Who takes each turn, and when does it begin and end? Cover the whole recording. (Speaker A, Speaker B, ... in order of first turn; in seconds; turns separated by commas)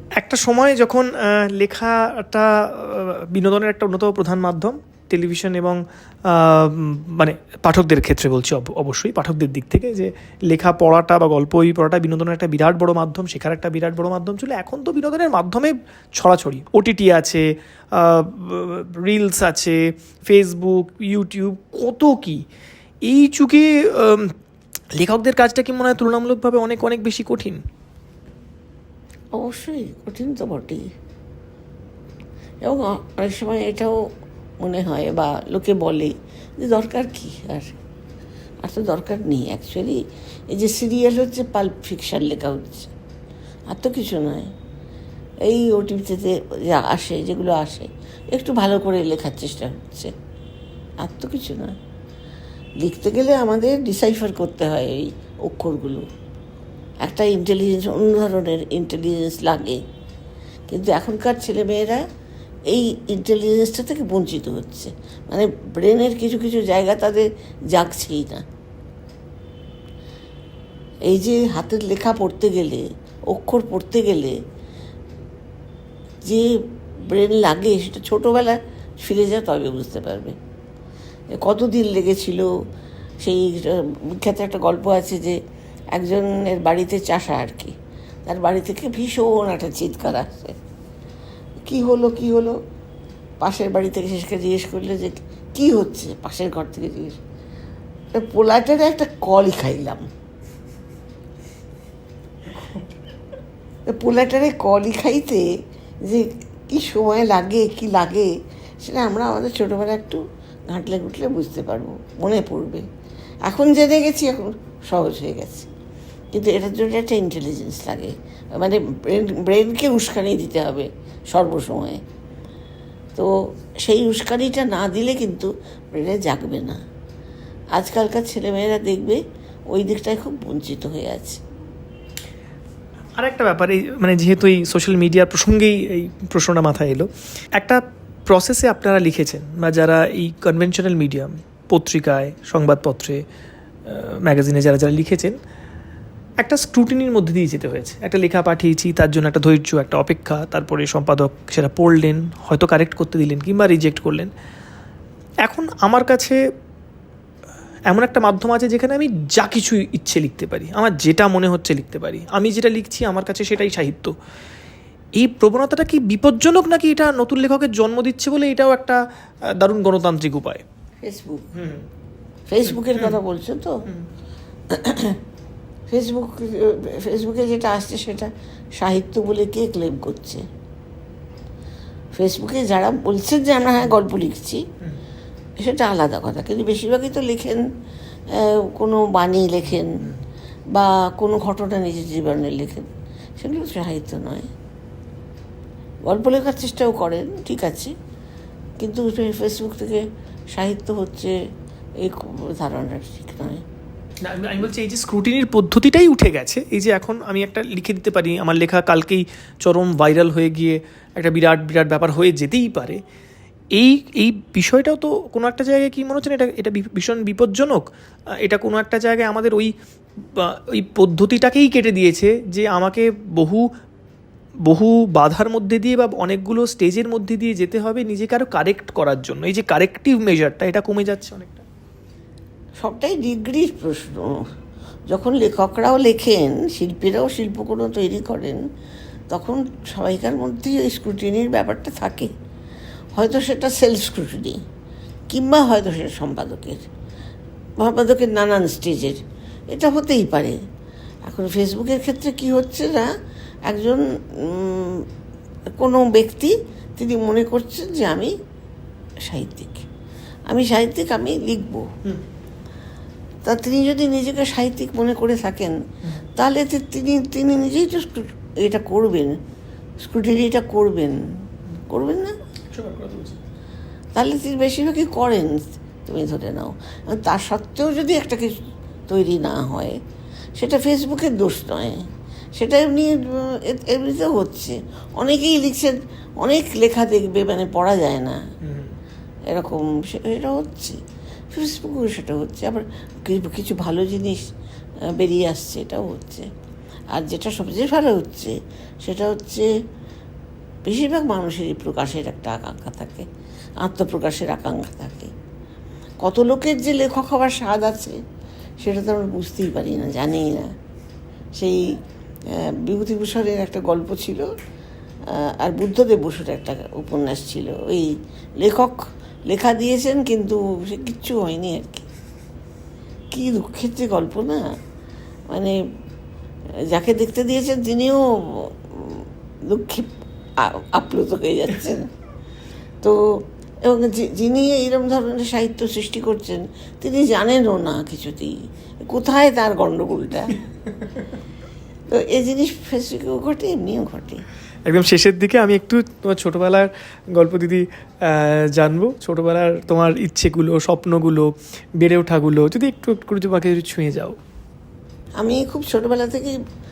Speaker A: 0.2-22.4, Speaker A: 23.0-24.3, Speaker A: 25.0-27.6, Speaker B: 29.4-30.9, Speaker B: 32.6-34.0, Speaker B: 34.6-37.8, Speaker B: 38.6-42.9, Speaker B: 43.7-44.5, Speaker B: 45.4-50.1, Speaker B: 51.0-51.7, Speaker B: 52.8-56.0, Speaker B: 57.0-59.8, Speaker B: 60.7-62.0, Speaker B: 62.7-68.4, Speaker B: 71.0-74.4, Speaker B: 76.2-76.5, Speaker B: 77.0-80.4, Speaker B: 81.3-82.5, Speaker B: 83.2-85.4, Speaker B: 85.9-87.8, Speaker B: 88.2-90.5, Speaker B: 91.6-92.6, Speaker B: 93.4-97.2, Speaker B: 98.1-100.1, Speaker B: 103.9-105.5, Speaker B: 106.0-112.9, Speaker B: 113.4-115.7, Speaker B: 116.3-122.0, Speaker B: 123.1-126.8, Speaker B: 127.8-131.4, Speaker A: 133.2-143.2, Speaker A: 143.8-145.4, Speaker A: 146.4-154.3, Speaker A: 155.4-156.4, Speaker A: 157.9-164.2, Speaker A: 165.2-170.6, Speaker B: 171.0-171.5, Speaker A: 171.5-171.8, Speaker B: 172.5-173.8, Speaker A: 172.8-173.2, Speaker B: 174.7-175.2, Speaker B: 175.9-180.4, Speaker B: 182.2-184.6, Speaker B: 185.6-187.6, Speaker B: 188.3-190.1, Speaker B: 190.7-194.5, Speaker B: 196.0-197.9, Speaker B: 198.8-201.3, Speaker B: 202.0-203.6, Speaker A: 204.2-213.0, Speaker A: 213.7-217.9, Speaker A: 218.4-223.7, Speaker A: 224.7-231.7, Speaker B: 232.8-234.5, Speaker B: 235.1-238.6, Speaker B: 239.3-242.3, Speaker B: 243.2-244.6, Speaker B: 245.3-246.9, Speaker B: 247.8-250.6, Speaker B: 251.2-253.1, Speaker B: 253.7-255.1, Speaker B: 255.8-258.3, Speaker B: 259.2-259.9, Speaker B: 260.5-261.9, Speaker B: 263.4-265.8, Speaker B: 266.4-269.4, Speaker B: 270.0-271.2, Speaker B: 271.9-272.4, Speaker A: 272.7-273.4, Speaker B: 274.1-280.0, Speaker B: 280.6-288.4, Speaker A: 288.6-289.0, Speaker B: 289.5-291.0, Speaker B: 291.5-294.5, Speaker B: 295.1-296.5, Speaker B: 297.1-299.7, Speaker B: 300.9-303.3, Speaker B: 303.8-305.3, Speaker B: 306.2-308.2, Speaker B: 308.8-310.7, Speaker B: 311.6-311.9, Speaker B: 312.5-314.5, Speaker B: 315.3-322.1, Speaker B: 323.3-324.7, Speaker B: 325.5-325.8, Speaker B: 326.9-332.1, Speaker B: 333.0-340.6, Speaker B: 342.1-344.4, Speaker A: 344.9-354.4, Speaker B: 355.4-356.5